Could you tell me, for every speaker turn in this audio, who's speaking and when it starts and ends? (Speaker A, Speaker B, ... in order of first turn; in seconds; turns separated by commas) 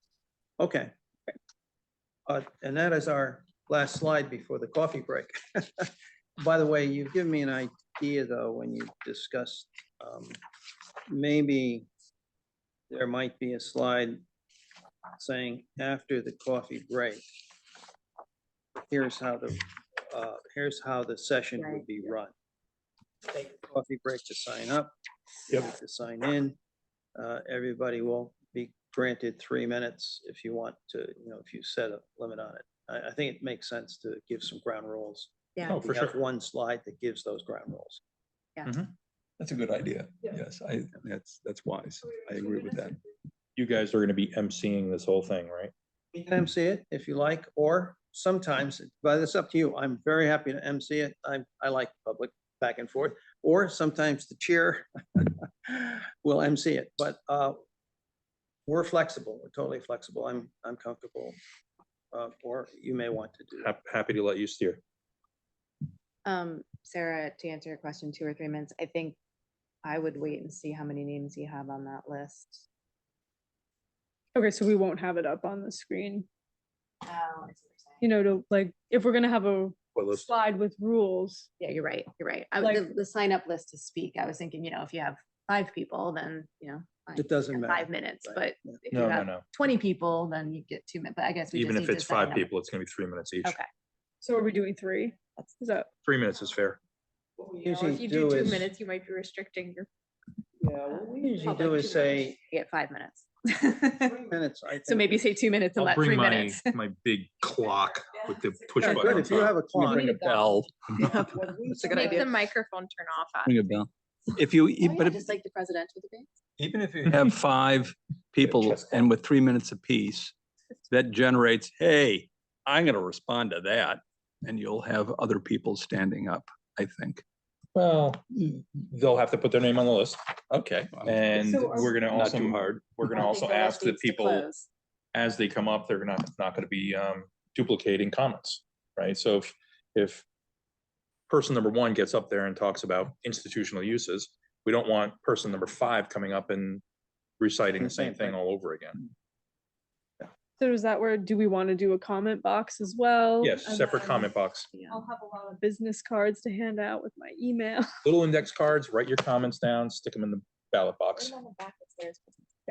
Speaker A: 0.6-0.9, Speaker A: 2.3-10.4, Speaker A: 11.1-11.9, Speaker A: 12.9-14.2, Speaker A: 15.2-17.2, Speaker A: 18.8-22.3, Speaker B: 21.6-22.1, Speaker A: 23.3-24.9, Speaker A: 25.5-26.6, Speaker A: 27.1-38.0, Speaker C: 35.6-36.2, Speaker C: 38.6-38.9, Speaker D: 39.4-43.0, Speaker C: 43.5-45.7, Speaker A: 46.1-57.6, Speaker A: 58.7-61.4, Speaker A: 62.1-63.7, Speaker C: 63.6-64.8, Speaker B: 66.2-69.2, Speaker B: 69.8-72.6, Speaker E: 74.3-76.2, Speaker B: 77.0-78.1, Speaker E: 78.0-81.5, Speaker C: 79.9-80.3, Speaker B: 81.6-92.5, Speaker E: 82.6-82.9, Speaker A: 87.1-88.7, Speaker C: 88.9-89.5, Speaker C: 91.5-93.6, Speaker B: 93.4-93.7, Speaker E: 94.2-95.9, Speaker C: 96.0-96.8, Speaker F: 97.5-99.9, Speaker A: 97.5-98.7, Speaker A: 100.6-102.4, Speaker B: 100.9-104.2, Speaker A: 104.0-105.2, Speaker B: 104.8-106.7, Speaker C: 105.8-109.7, Speaker A: 108.8-110.2, Speaker B: 108.8-109.2, Speaker D: 109.7-111.2, Speaker B: 110.0-110.4, Speaker B: 111.0-112.4, Speaker F: 111.8-113.8, Speaker D: 113.4-115.3, Speaker B: 114.8-116.3, Speaker D: 116.6-120.3, Speaker C: 118.4-119.1, Speaker D: 120.9-127.2, Speaker C: 127.7-134.5, Speaker D: 130.9-133.2, Speaker E: 131.5-131.9, Speaker B: 133.1-134.7, Speaker F: 133.2-134.0, Speaker C: 135.1-140.2, Speaker C: 141.3-146.8, Speaker C: 147.4-149.0, Speaker A: 147.8-148.4, Speaker E: 150.6-154.3, Speaker C: 153.4-154.8, Speaker B: 154.7-155.0, Speaker E: 154.9-157.9, Speaker C: 158.0-161.4, Speaker F: 161.2-162.2